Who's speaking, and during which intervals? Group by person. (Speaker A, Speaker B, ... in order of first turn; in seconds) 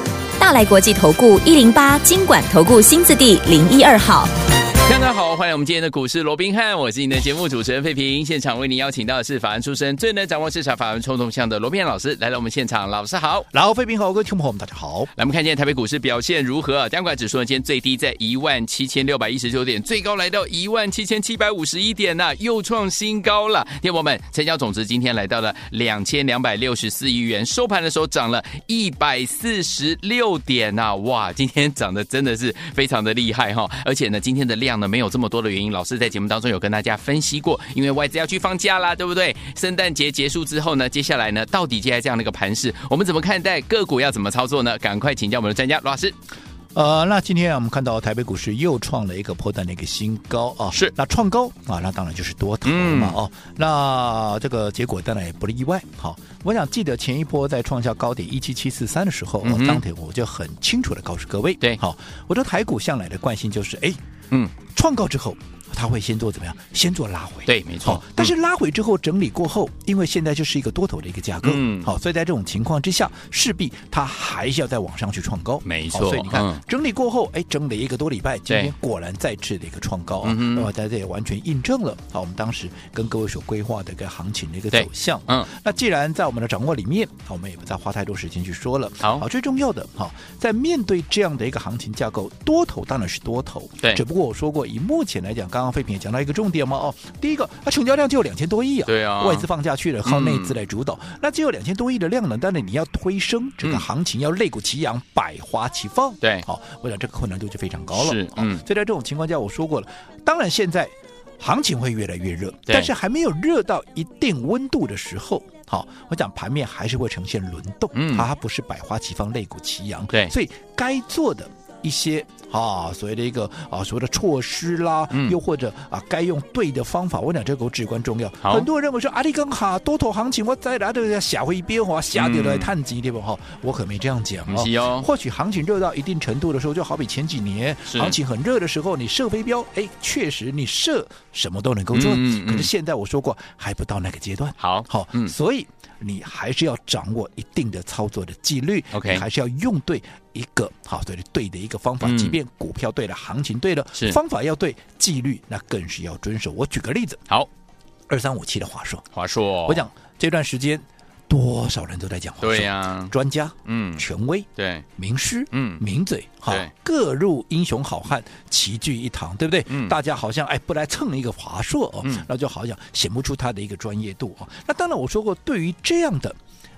Speaker A: 0.4-4.3
Speaker B: 4.8-13.5, 15.2-46.1, 52.6-53.2, 59.4-59.8, 67.5-68.3, 71.4-71.9, 75.6-76.6, 80.2-80.7, 84.7-85.5, 98.9-99.5, 100.0-100.6, 107.9-108.7, 117.9-118.3, 125.1-125.3, 128.4-128.7, 132.1-132.8, 134.5-135.1, 137.9-138.2, 141.9-142.7, 144.6-145.3, 148.9-149.2, 152.0-152.4, 159.1-159.9, 162.4-163.1, 163.7-164.8, 165.5-165.8, 169.7-170.0
Speaker C: 13.5-15.1, 46.7-64.0, 64.7-157.2, 158.1-159.0, 159.7-176.4